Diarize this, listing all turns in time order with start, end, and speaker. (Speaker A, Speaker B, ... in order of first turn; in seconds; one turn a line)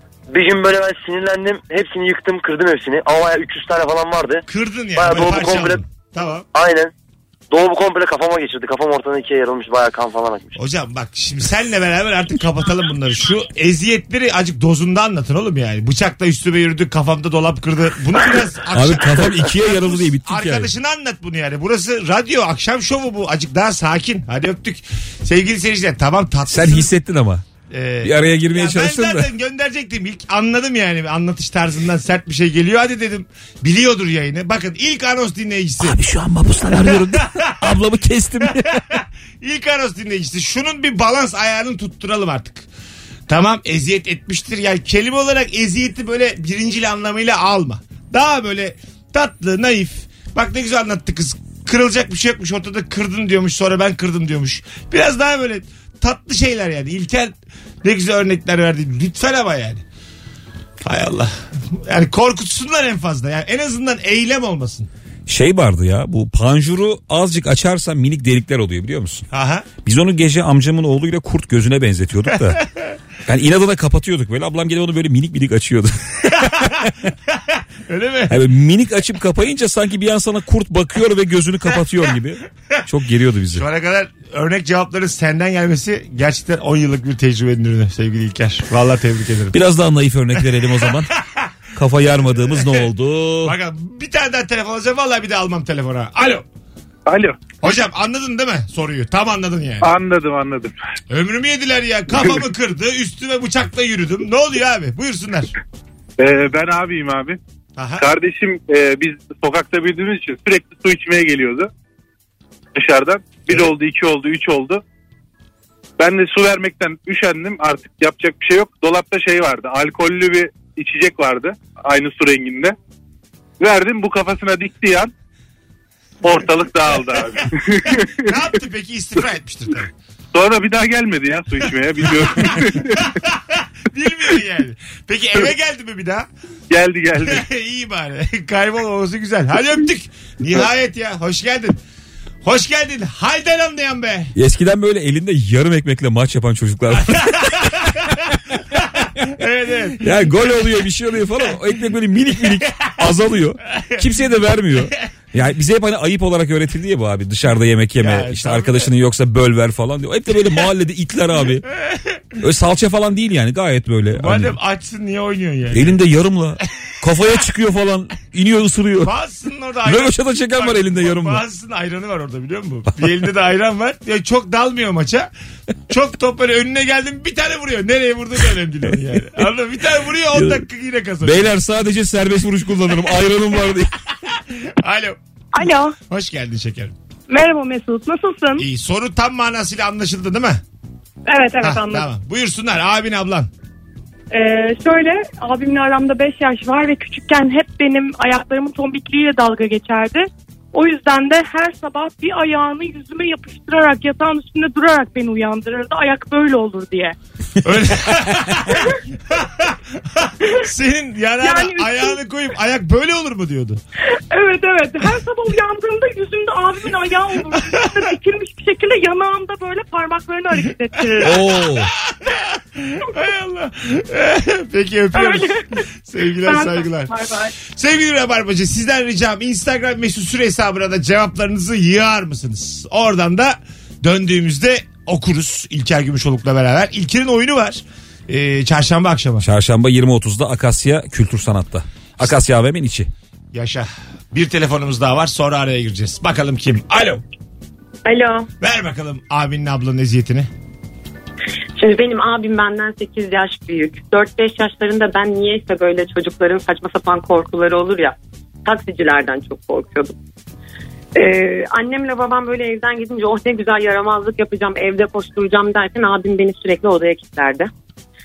Speaker A: 0.3-4.4
Speaker B: 4.5-6.5
Speaker A: 5.0-5.8
Speaker A: 6.5-6.9
Speaker A: 7.5-10.6
Speaker B: 10.6-26.9
Speaker C: 18.7-20.7
Speaker C: 26.5-27.4
Speaker B: 27.7-36.0
Speaker C: 28.0-29.3
Speaker C: 35.8-39.0
Speaker B: 36.8-37.8
Speaker B: 38.4-42.7
Speaker B: 43.3-59.8
Speaker B: 60.8-64.9
Speaker C: 65.3-69.2
Speaker B: 69.3-69.7
Speaker C: 69.8-72.6
Speaker C: 73.2-77.1
Speaker B: 76.4-78.4
Speaker C: 78.3-83.6
Speaker B: 83.5-89.6
Speaker C: 89.5-91.1
Speaker B: 90.8-91.5
Speaker C: 91.7-93.5
Speaker B: 92.2-92.9
Speaker B: 93.4-96.4
Speaker D: 97.1-97.5
Speaker B: 97.6-99.9
Speaker D: 99.8-100.7
Speaker B: 101.1-105.5
Speaker D: 106.2-107.4
Speaker B: 107.8-108.1
Speaker D: 108.0-111.7
Speaker D: 112.8-114.8
Speaker D: 116.0-122.8
Speaker D: 123.6-125.1
Speaker D: 126.2-128.5
Speaker B: 128.0-129.9
Speaker D: 130.3-133.2
Speaker B: 132.2-136.3
Speaker D: 136.7-137.4
Speaker B: 137.2-141.8
Speaker B: 142.4-144.3
Speaker C: 144.3-148.3
Speaker B: 147.0-148.1
Speaker B: 148.7-150.3
Speaker C: 150.0-161.7
Speaker B: 152.6-153.0
Speaker B: 153.7-154.1
Speaker B: 158.0-158.9
Speaker B: 161.8-162.2
Speaker C: 162.4-164.6
Speaker B: 164.1-166.0
Speaker C: 165.7-169.1
Speaker B: 169.0-175.3
Speaker C: 169.9-171.4
Speaker B: 175.9-181.5
Speaker C: 180.3-180.6
Speaker C: 181.2-183.9
Speaker B: 184.3-185.2
Speaker E: 185.5-186.0
Speaker B: 185.9-186.9
Speaker E: 187.3-188.6
Speaker B: 188.6-190.6
Speaker E: 191.3-192.1
Speaker B: 191.6-193.5
Speaker E: 194.3-207.2
Speaker B: 207.6-213.8
Speaker E: 211.4-212.2
Speaker E: 214.3-221.8
Speaker B: 221.0-239.5
Speaker C: 221.2-221.9
Speaker E: 225.1-225.8
Speaker E: 226.4-227.5
Speaker C: 239.4-243.1
Speaker B: 243.5-247.2
Speaker F: 248.0-248.5
Speaker B: 248.6-250.5
Speaker F: 251.8-260.1
Speaker F: 261.1-267.7